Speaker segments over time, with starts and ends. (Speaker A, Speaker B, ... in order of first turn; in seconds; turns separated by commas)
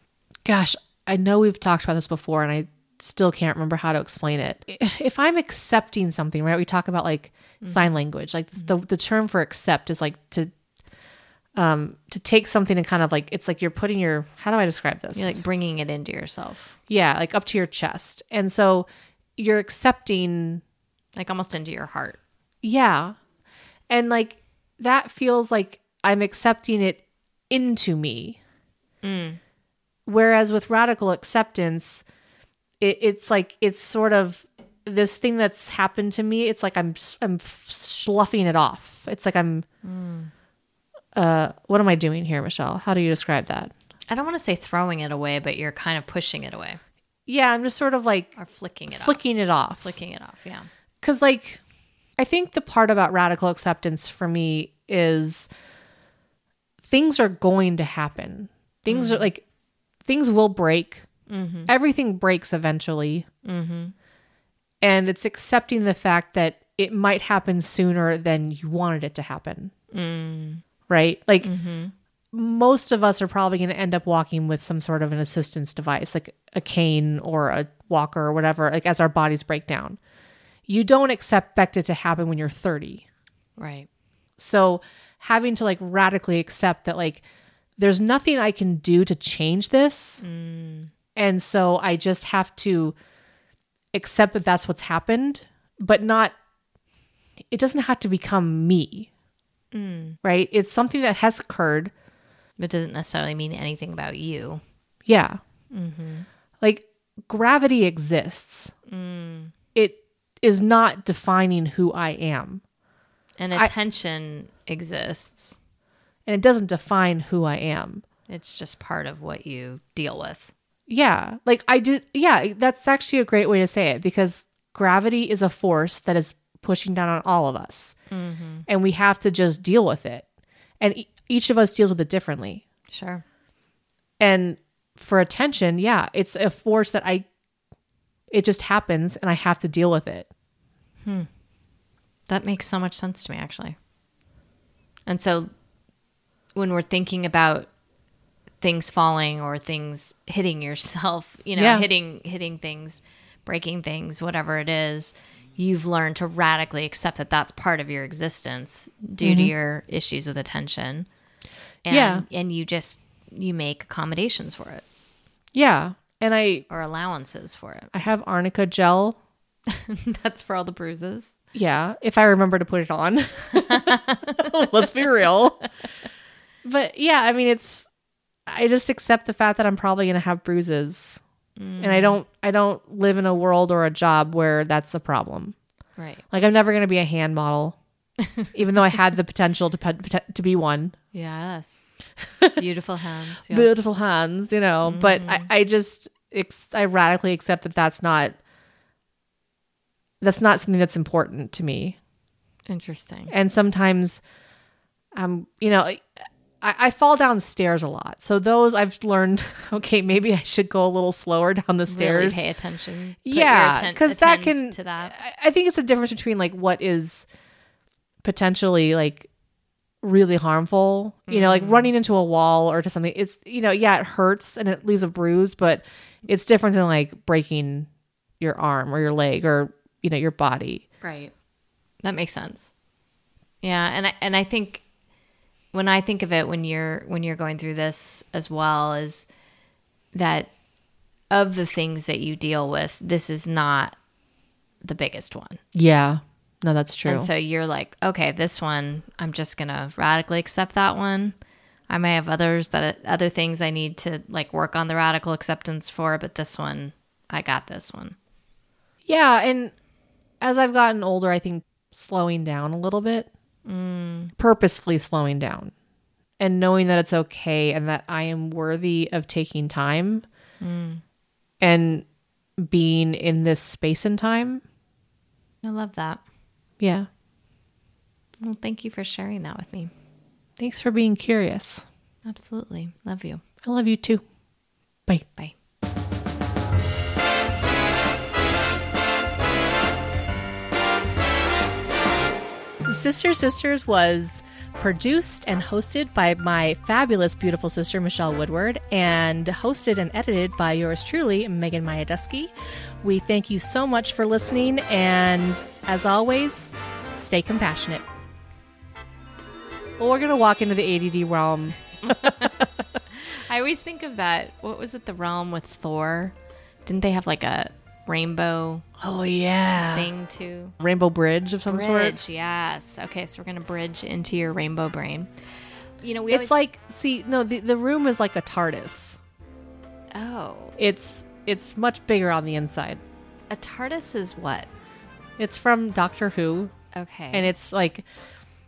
Speaker A: 0.5-10.5, Speaker B: 7.6-7.9, Speaker A: 11.6-15.4, Speaker B: 15.2-16.7, Speaker A: 16.9-20.6, Speaker B: 21.2-22.2, Speaker A: 22.6-23.2, Speaker A: 23.9-28.4, Speaker B: 29.0-29.4, Speaker A: 30.1-32.0, Speaker A: 32.8-39.6, Speaker B: 39.8-40.3, Speaker A: 41.1-43.7, Speaker B: 44.1-46.8, Speaker A: 47.3-48.3, Speaker B: 48.4-49.2, Speaker A: 48.9-50.0, Speaker B: 49.8-50.7, Speaker A: 51.0-51.6, Speaker A: 52.2-55.5, Speaker A: 56.8-59.4, Speaker B: 58.9-59.3, Speaker A: 60.0-61.0, Speaker B: 61.3-61.7, Speaker A: 61.7-63.3, Speaker B: 63.5-63.9, Speaker A: 64.8-69.7, Speaker B: 69.9-70.6, Speaker A: 70.9-71.5, Speaker B: 71.4-71.9, Speaker A: 72.3-80.0, Speaker A: 80.7-83.0, Speaker B: 83.6-83.9, Speaker A: 84.4-87.2, Speaker A: 87.8-90.2, Speaker B: 90.2-90.9, Speaker A: 91.2-93.0, Speaker A: 93.9-96.3, Speaker A: 97.5-99.1, Speaker B: 99.7-100.2, Speaker A: 100.2-101.9, Speaker B: 102.6-104.6, Speaker A: 105.1-105.4, Speaker B: 105.7-106.3, Speaker A: 106.6-108.7, Speaker B: 108.9-109.5, Speaker A: 109.8-112.6, Speaker B: 113.4-115.6, Speaker A: 116.3-118.0, Speaker B: 118.3-120.5, Speaker A: 120.9-128.0, Speaker B: 128.1-128.7, Speaker A: 128.7-130.2, Speaker A: 130.8-132.6, Speaker B: 132.9-133.2, Speaker A: 134.2-137.3, Speaker A: 138.3-140.3, Speaker B: 142.3-143.8, Speaker B: 145.1-145.5, Speaker B: 146.6-147.7, Speaker B: 148.6-161.1, Speaker A: 151.6-151.9, Speaker A: 159.2-159.5, Speaker B: 161.8-164.8, Speaker A: 161.9-162.2, Speaker A: 165.5-166.7, Speaker B: 166.7-167.9, Speaker A: 167.9-169.2, Speaker B: 169.7-171.4, Speaker A: 171.5-175.7, Speaker B: 173.7-174.5, Speaker A: 176.6-177.9, Speaker A: 178.5-181.2, Speaker B: 181.6-182.2, Speaker A: 181.8-185.6, Speaker B: 186.0-186.2, Speaker A: 186.3-187.8, Speaker A: 188.5-190.9, Speaker B: 191.1-191.8, Speaker B: 192.6-193.8, Speaker A: 193.5-198.4, Speaker B: 194.8-195.5, Speaker A: 200.2-202.0, Speaker B: 202.7-203.3, Speaker A: 203.3-204.2, Speaker A: 205.2-206.1, Speaker A: 206.6-212.4, Speaker B: 211.9-215.2, Speaker A: 213.2-217.3, Speaker A: 218.2-219.3, Speaker A: 220.0-227.9, Speaker B: 221.3-221.9, Speaker A: 228.4-230.8, Speaker B: 231.0-231.3, Speaker B: 232.0-232.7, Speaker B: 233.6-234.8, Speaker B: 235.7-239.3, Speaker B: 240.1-240.5, Speaker B: 241.3-244.0, Speaker B: 244.8-245.6, Speaker A: 245.7-247.3, Speaker B: 247.1-251.3, Speaker B: 251.9-258.2, Speaker A: 259.1-259.7, Speaker A: 260.4-263.3, Speaker B: 263.7-264.3, Speaker A: 264.4-265.7, Speaker A: 266.4-270.2, Speaker B: 270.6-271.0, Speaker A: 271.6-272.1, Speaker A: 272.6-274.6, Speaker B: 275.6-276.2, Speaker A: 276.8-277.1, Speaker B: 278.4-279.9, Speaker A: 280.6-281.9, Speaker B: 282.3-283.4, Speaker A: 283.6-284.2, Speaker A: 292.9-302.5, Speaker A: 303.0-308.1, Speaker A: 310.0-312.7, Speaker B: 312.0-312.6, Speaker B: 313.2-316.4, Speaker B: 316.9-318.9, Speaker A: 319.0-320.1, Speaker B: 319.9-320.8, Speaker A: 320.8-322.2, Speaker B: 321.7-325.3, Speaker B: 326.0-326.6, Speaker A: 326.3-329.2, Speaker B: 330.1-330.8, Speaker A: 330.8-333.0, Speaker B: 333.5-334.7, Speaker A: 335.4-336.7, Speaker B: 336.9-337.5, Speaker A: 337.3-338.1